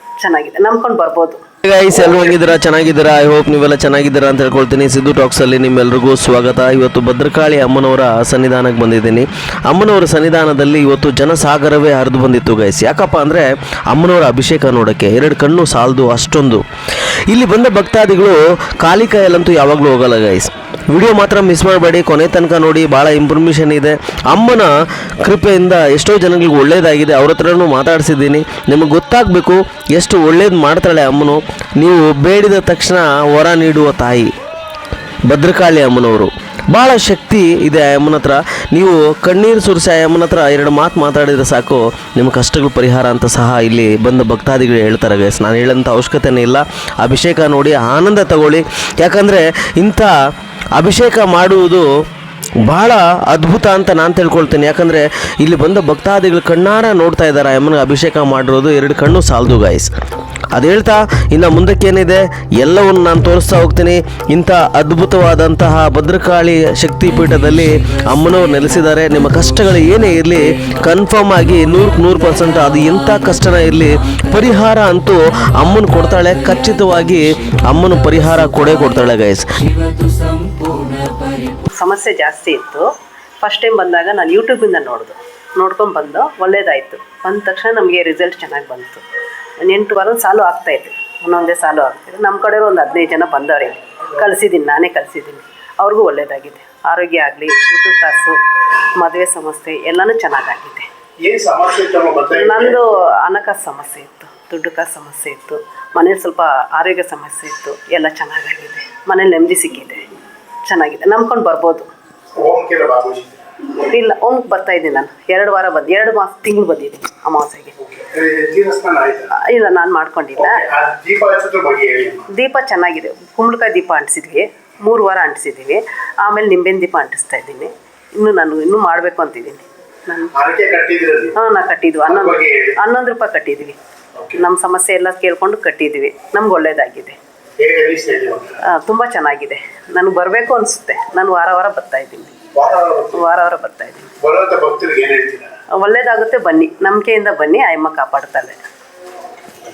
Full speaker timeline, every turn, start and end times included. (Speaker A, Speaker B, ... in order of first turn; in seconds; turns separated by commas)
Speaker A: 0.2-1.4, Speaker B: 1.6-16.6, Speaker B: 17.3-24.7, Speaker B: 25.2-34.3, Speaker B: 35.3-50.1, Speaker B: 50.7-51.9, Speaker B: 52.6-59.9, Speaker B: 60.5-79.6, Speaker A: 81.7-82.9, Speaker A: 83.4-89.0, Speaker A: 89.6-98.4, Speaker A: 99.0-100.9, Speaker C: 101.2-102.8, Speaker A: 102.3-110.0, Speaker A: 110.7-111.9, Speaker C: 112.4-113.4, Speaker A: 113.9-117.7, Speaker C: 117.8-119.3, Speaker A: 119.4-120.6, Speaker C: 120.4-122.2, Speaker A: 122.3-130.3, Speaker C: 130.3-131.3, Speaker A: 131.3-133.8, Speaker C: 132.1-132.8, Speaker C: 134.2-134.4, Speaker A: 134.3-137.2, Speaker C: 137.6-138.6, Speaker A: 138.6-142.4, Speaker C: 142.5-143.2, Speaker A: 143.1-144.1, Speaker C: 144.2-145.5, Speaker A: 145.8-148.6